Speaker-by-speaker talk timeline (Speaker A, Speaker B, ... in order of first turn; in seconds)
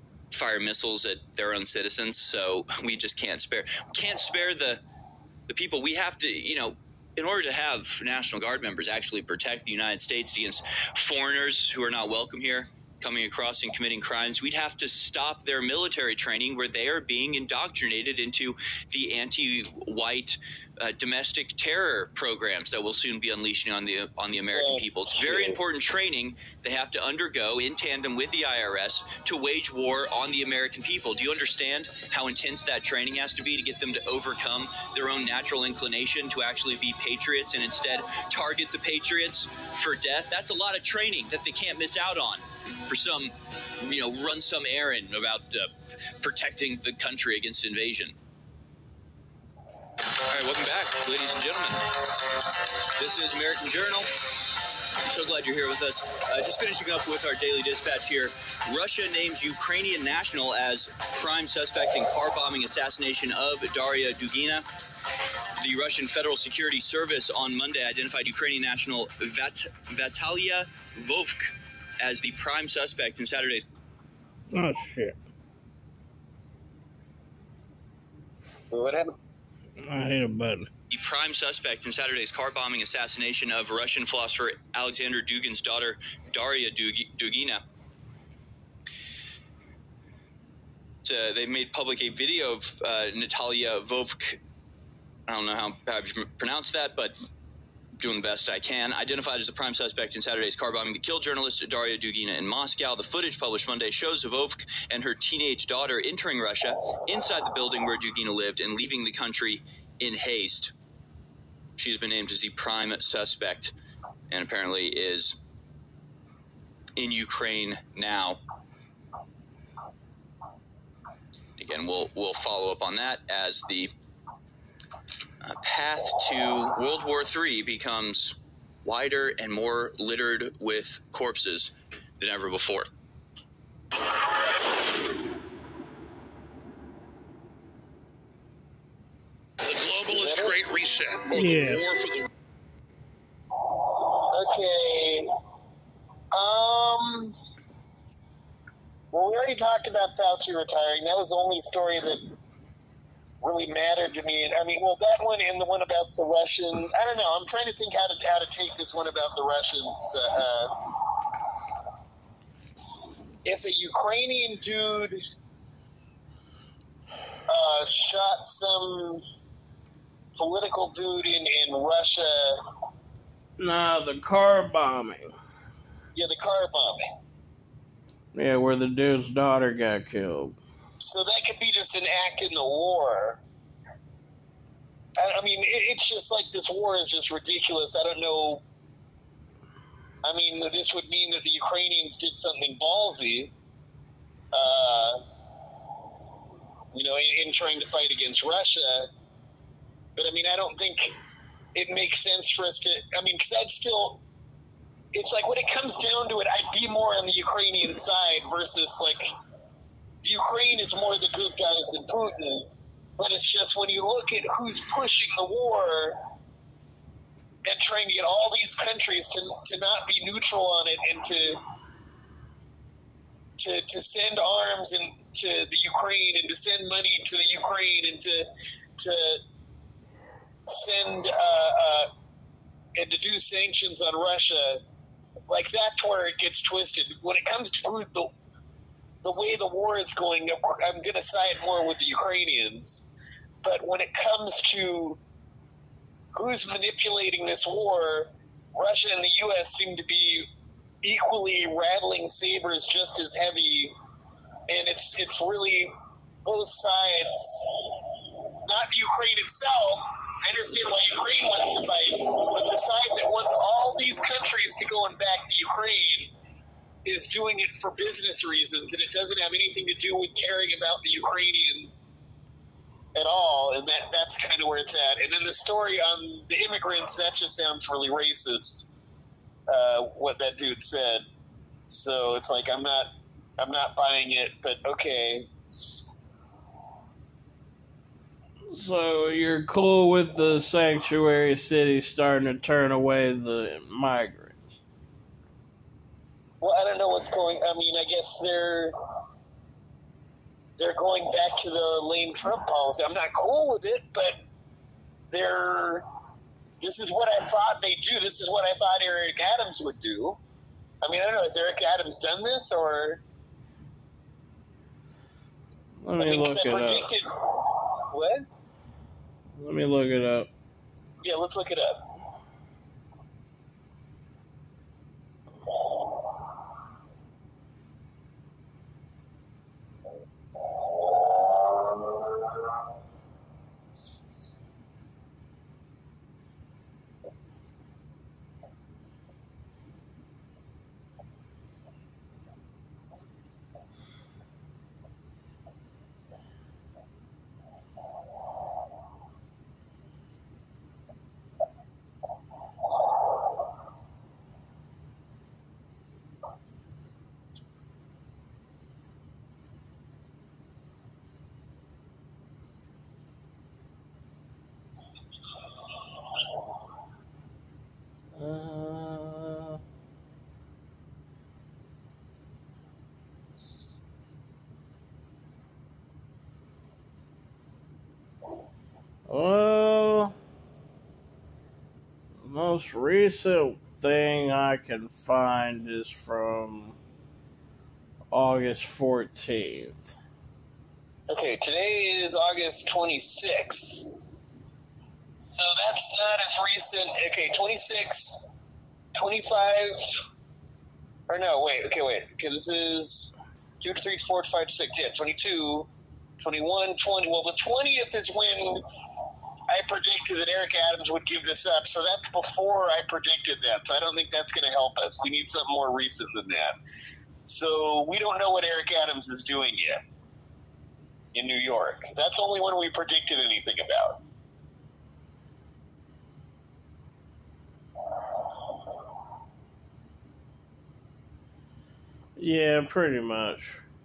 Speaker A: 0.3-4.8, 5.5-48.2, 50.2-52.0, 53.0-54.1, 55.0-64.7, 65.6-73.7, 80.9-87.6, 91.0-94.4, 95.3-97.1, 98.0-110.7, 111.8-113.8, 114.3-115.4, 117.0-118.4, 121.6-123.9, 125.4-132.9
Speaker B: 24.5-25.6, 78.7-79.1, 140.1-140.7, 144.2-145.3, 146.3-147.3, 149.1-152.3, 153.4-160.8, 163.4-165.2, 167.5-169.2, 170.3-172.6, 176.1-177.1, 181.0-183.4, 185.2-188.6, 190.2-193.5, 194.5-195.2, 196.9-199.1, 200.2-201.2, 201.8-204.2, 205.1-209.3, 210.2-216.2, 217.7-221.6, 223.6-229.4, 230.7-232.1, 232.9-234.8, 235.5-238.3, 239.2-243.1, 243.6-245.2, 246.3-250.5, 251.0-253.9, 254.7-255.9, 256.4-258.0, 258.5-266.3, 267.1-272.1, 273.1-278.9, 279.7-281.2, 281.9-286.0, 296.6-298.9, 300.8-304.4, 305.3-306.1, 306.8-310.4, 311.0-313.2, 316.2-317.3, 318.0-318.5, 321.2-322.1, 391.3-394.1, 395.4-398.4, 399.1-400.2, 401.3-408.9, 409.7-416.8, 417.4-420.0, 421.3-424.2
Speaker C: 74.5-75.2, 79.8-80.7, 141.3-141.8, 173.6-175.3, 178.3-180.6, 288.7-294.8, 316.0-317.1, 319.6-320.5, 368.3-369.8, 379.3-380.3, 382.4-387.0, 388.3-390.2, 432.4-433.8
Speaker D: 139.6-142.3